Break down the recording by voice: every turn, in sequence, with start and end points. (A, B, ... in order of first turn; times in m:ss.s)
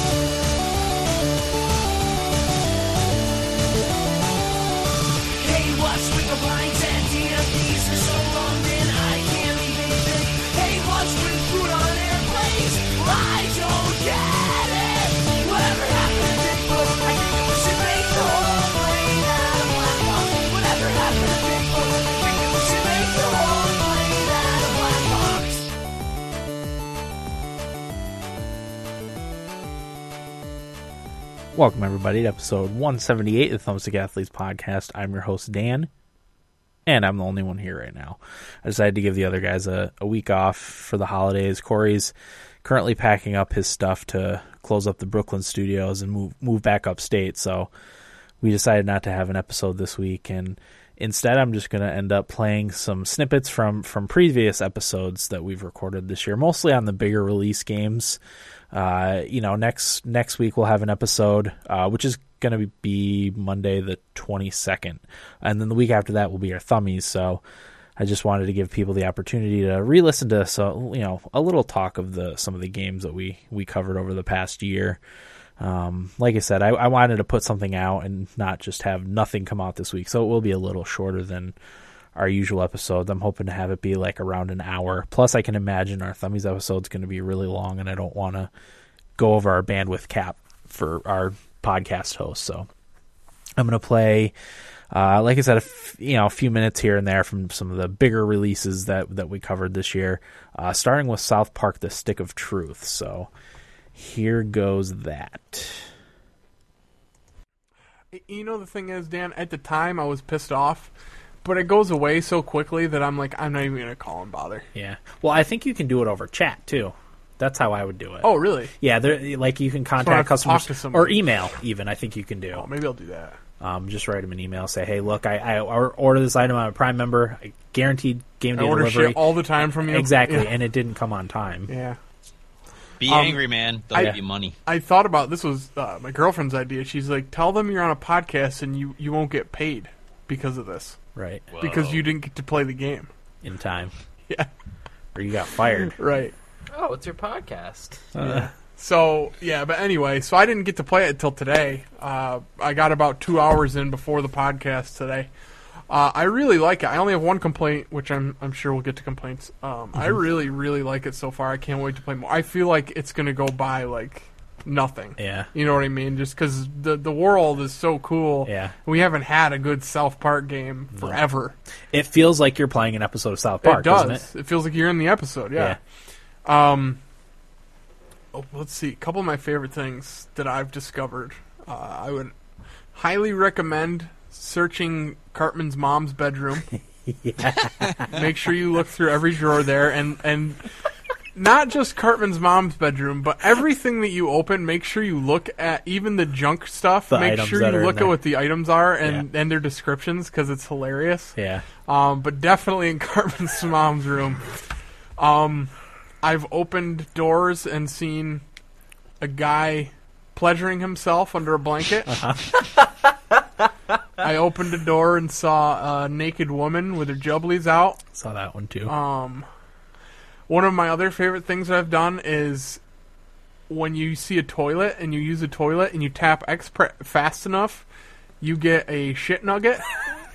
0:05.4-0:25.7 A
0:31.5-0:35.9 B
0:36.8-0:47.7 B
0:48.4-0:58.2 B
0:58.7-1:07.4 B
1:08.0-1:15.0 B
1:15.6-1:21.6 B
1:22.1-1:28.5 B
1:29.2-1:32.7 B
1:33.6-1:34.3 B
1:34.9-1:43.3 B
1:43.9-1:45.9 B
1:48.1-1:50.9 C
1:51.4-1:54.7 C
1:54.8-2:02.7 B
1:58.2-1:58.7 C
2:00.0-2:01.2 C
2:02.5-2:03.4 C
2:03.6-2:11.7 B
2:08.6-2:10.5 C
2:11.7-2:12.0 C
2:13.0-2:14.6 D
2:13.1-2:13.4 C
2:13.9-2:21.0 C
2:21.2-2:21.4 B
2:21.5-2:22.0 D
2:21.6-2:23.1 C
2:23.4-2:23.9 B
2:25.2-2:26.0 B
2:26.0-2:26.3 C
2:26.7-2:28.0 A
2:28.2-2:28.5 B
2:28.2-2:35.3 C
2:35.9-2:51.6 C
2:45.2-2:45.5 B
2:48.4-2:48.7 B
2:50.9-2:51.2 B
2:51.9-2:54.3 B
2:53.6-2:55.8 C
2:56.4-2:57.0 C
2:58.3-3:02.3 C
3:02.9-3:06.7 C
3:07.1-3:08.0 B
3:07.6-3:10.6 C
3:11.3-3:21.3 C
3:17.1-3:18.2 B
3:21.4-3:21.6 B
3:21.9-3:24.5 C
3:25.2-3:28.4 C
3:29.2-3:32.2 C
3:32.1-3:32.4 B
3:34.2-3:38.0 C
3:38.1-3:39.0 B
3:38.9-3:39.5 C
3:40.5-3:42.8 C
3:43.7-3:47.9 C
3:48.4-3:50.1 C